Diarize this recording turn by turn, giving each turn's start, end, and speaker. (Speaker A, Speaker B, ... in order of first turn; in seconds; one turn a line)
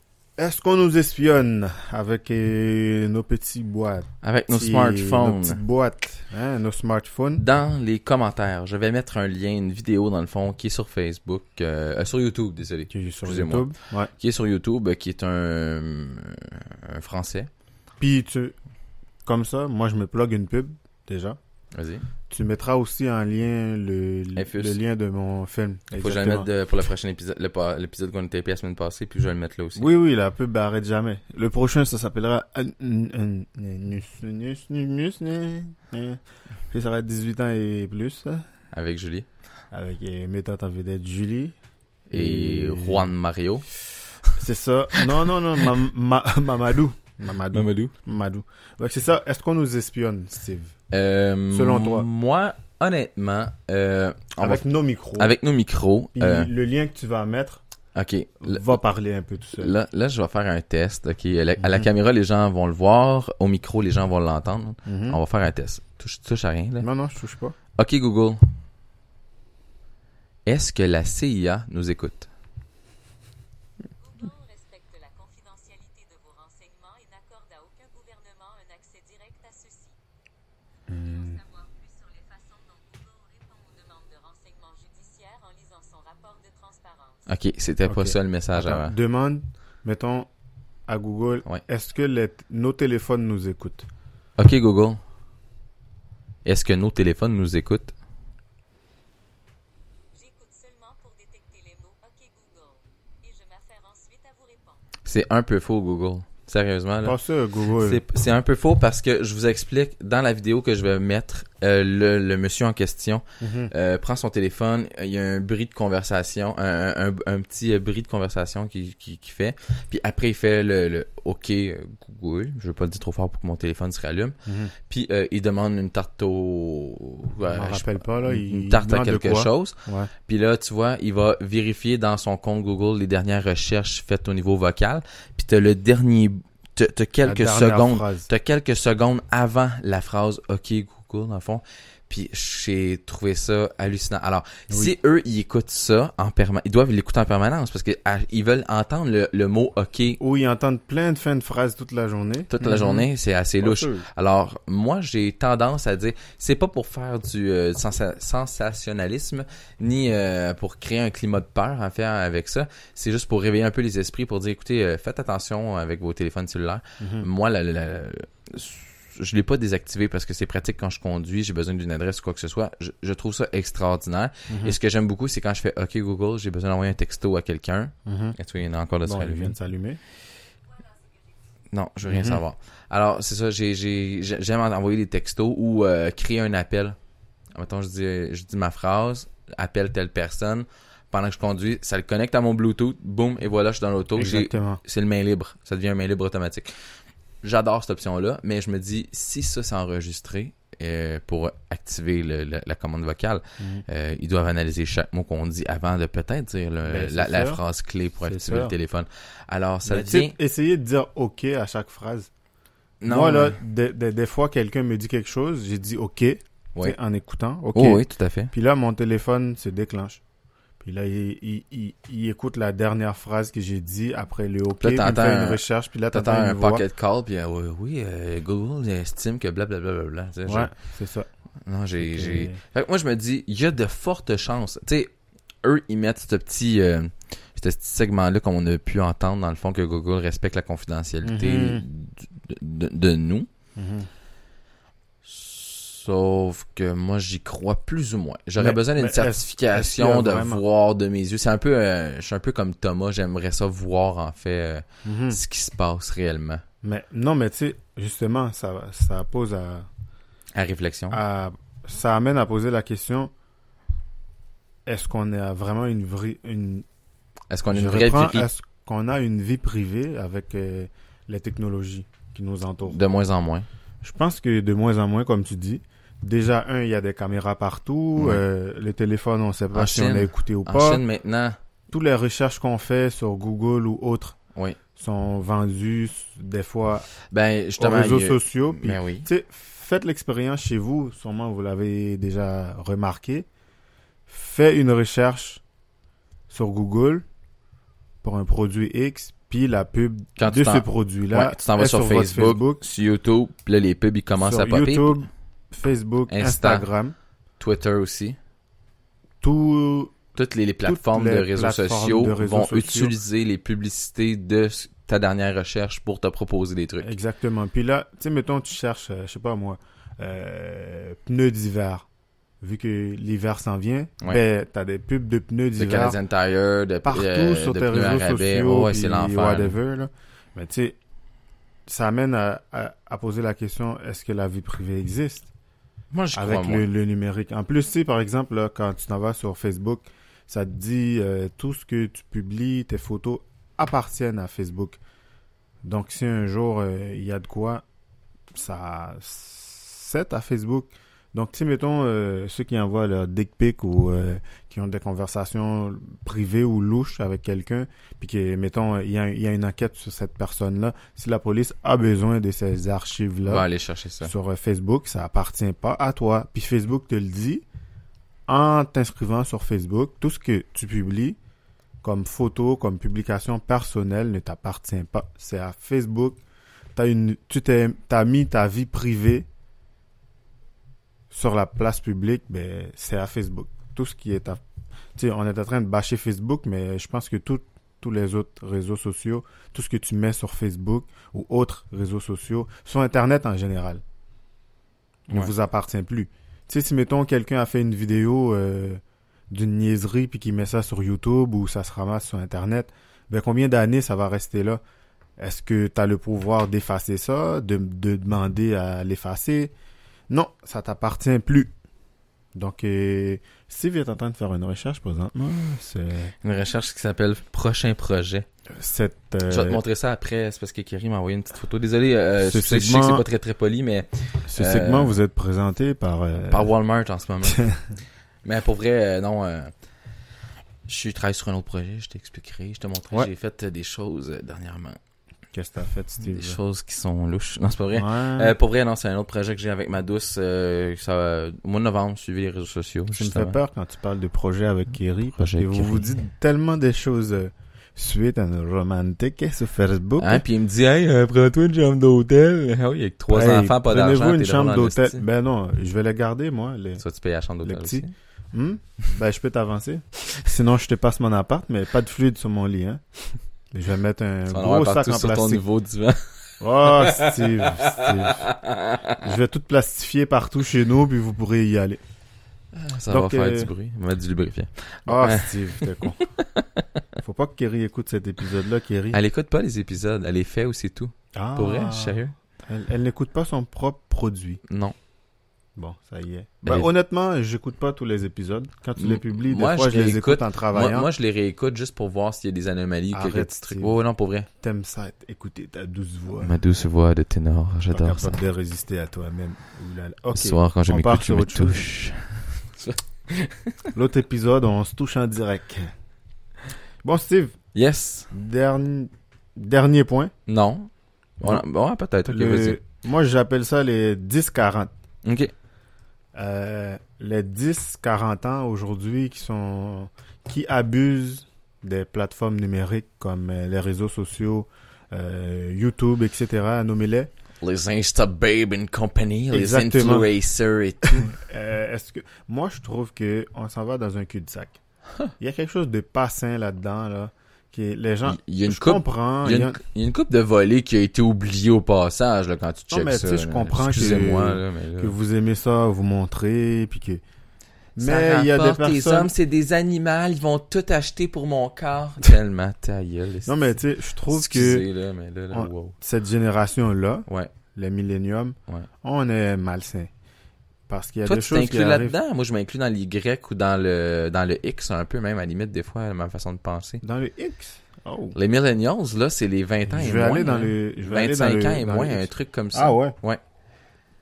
Speaker A: 0.4-7.4
Speaker B: 4.2-5.6
Speaker B: 7.4-17.5
Speaker A: 12.9-14.1
Speaker A: 18.0-18.6
Speaker A: 19.2-21.4
Speaker B: 21.7-22.1
Speaker A: 22.3-26.5
Speaker B: 24.4-24.8
Speaker B: 26.0-29.9
Speaker A: 29.8-38.5
Speaker B: 38.7-39.3
Speaker A: 39.7-41.5
Speaker A: 42.1-43.1
Speaker B: 42.1-43.7
Speaker A: 44.4-50.8
Speaker B: 47.5-47.9
Speaker B: 50.9-54.6
Speaker A: 51.5-52.1
Speaker A: 54.4-55.3
Speaker B: 55.2-56.5
Speaker A: 56.1-57.6
Speaker B: 58.0-58.8
Speaker A: 58.4-59.8
Speaker B: 59.6-66.9
Speaker A: 64.9-65.2
Speaker A: 66.8-67.6
Speaker B: 67.8-68.5
Speaker B: 70.5-72.3
Speaker C: 73.9-80.0
Speaker A: 80.9-81.4
Speaker C: 80.9-87.3
Speaker B: 87.3-89.0
Speaker A: 87.9-90.3
Speaker A: 90.9-93.9
Speaker B: 94.4-95.0
Speaker B: 96.5-97.9
Speaker C: 100.1-104.9
Speaker B: 105.0-107.2
Speaker A: 107.0-108.0
Speaker B: 107.8-150.2
Speaker A: 113.4-113.7
Speaker A: 124.5-124.7
Speaker A: 127.5-130.1
Speaker A: 137.2-138.3
Speaker A: 150.2-153.1
Speaker B: 152.5-179.6
Speaker A: 153.6-154.1
Speaker A: 167.0-167.3
Speaker A: 174.5-174.8
Speaker A: 178.1-178.4
Speaker A: 179.1-180.0
Speaker C: 180.7-181.4
Speaker B: 181.7-187.0
Speaker A: 182.1-182.4
Speaker B: 187.6-196.7
Speaker A: 194.2-194.8
Speaker B: 197.4-210.3
Speaker A: 203.6-203.8
Speaker A: 206.8-207.6
Speaker A: 208.2-208.7
Speaker A: 209.8-212.3
Speaker B: 213.0-213.6
Speaker A: 213.1-220.2
Speaker B: 217.7-218.5
Speaker A: 220.8-226.8
Speaker B: 224.8-230.7
Speaker A: 230.5-231.3
Speaker B: 231.7-235.1
Speaker A: 232.0-232.6
Speaker B: 235.6-243.5
Speaker A: 241.2-241.8
Speaker A: 243.8-244.1
Speaker B: 245.2-256.6
Speaker A: 248.6-250.6
Speaker A: 255.0-255.4
Speaker A: 256.8-259.9
Speaker B: 260.6-261.2
Speaker A: 261.1-263.3
Speaker A: 264.9-266.9
Speaker B: 267.5-268.5
Speaker A: 267.7-273.0
Speaker B: 272.8-273.7
Speaker A: 274.0-281.0
Speaker B: 278.2-278.4
Speaker B: 279.7-281.6
Speaker A: 281.9-284.4
Speaker A: 285.0-287.1
Speaker B: 287.3-289.3
Speaker A: 287.8-293.5
Speaker A: 294.3-295.6
Speaker A: 296.5-297.2
Speaker A: 298.2-302.8
Speaker B: 300.4-305.2
Speaker A: 304.4-307.1
Speaker B: 306.3-306.9
Speaker B: 307.6-308.4
Speaker A: 309.4-310.2
Speaker B: 310.4-317.1
Speaker A: 310.9-313.2
Speaker A: 317.0-322.1
Speaker A: 322.6-326.2
Speaker B: 325.8-329.8
Speaker A: 327.0-331.0
Speaker A: 331.9-335.5
Speaker B: 336.1-336.9
Speaker A: 336.3-345.0
Speaker A: 345.8-347.8
Speaker A: 348.5-363.7
Speaker B: 363.5-364.3
Speaker A: 364.2-367.6
Speaker A: 368.5-371.4
Speaker A: 372.0-376.4
Speaker A: 376.9-379.5
Speaker A: 381.3-384.6
Speaker A: 385.2-394.0
Speaker A: 395.3-404.8
Speaker A: 405.4-409.7
Speaker A: 410.3-411.7
Speaker A: 412.6-416.3
Speaker B: 416.4-418.5
Speaker A: 418.7-419.8
Speaker B: 419.5-425.2
Speaker A: 422.4-423.2
Speaker A: 424.5-426.7
Speaker B: 426.4-427.7
Speaker A: 427.4-427.8
Speaker B: 428.4-429.7
Speaker B: 430.9-435.0
Speaker A: 435.5-436.6
Speaker B: 436.2-443.6
Speaker A: 437.9-438.5
Speaker A: 443.2-450.4
Speaker B: 445.4-446.1
Speaker B: 450.2-455.2
Speaker A: 453.3-457.0
Speaker B: 457.0-458.1
Speaker A: 457.6-463.0
Speaker A: 463.7-465.6
Speaker B: 464.5-466.2
Speaker A: 466.6-468.5
Speaker B: 466.8-469.3
Speaker A: 469.2-472.0
Speaker B: 472.8-476.8
Speaker A: 473.1-473.7
Speaker A: 475.1-476.2
Speaker A: 477.2-479.2
Speaker B: 479.1-482.3
Speaker A: 481.3-484.6
Speaker B: 484.7-484.9
Speaker A: 485.8-491.1
Speaker B: 486.6-486.9
Speaker B: 489.0-494.5
Speaker A: 493.1-494.0
Speaker A: 494.6-496.5
Speaker B: 496.4-498.4
Speaker A: 497.9-501.9
Speaker B: 500.3-503.9
Speaker A: 503.9-505.9
Speaker A: 507.0-507.6
Speaker B: 507.7-508.3
Speaker A: 508.3-510.3
Speaker B: 510.5-510.9
Speaker B: 511.4-512.8
Speaker A: 512.3-514.9
Speaker B: 515.2-515.5
Speaker A: 516.4-527.3
Speaker B: 527.6-531.4
Speaker A: 529.5-530.3
Speaker A: 531.0-534.8
Speaker A: 535.4-539.8
Speaker B: 538.2-545.1
Speaker A: 542.9-547.2
Speaker A: 548.0-549.3
Speaker B: 548.0-553.8
Speaker A: 553.5-554.9
Speaker B: 554.3-556.0
Speaker A: 555.5-560.1
Speaker B: 557.3-557.5
Speaker A: 560.9-562.1
Speaker B: 561.3-567.0
Speaker A: 567.0-568.4
Speaker B: 568.4-573.4
Speaker A: 569.9-573.2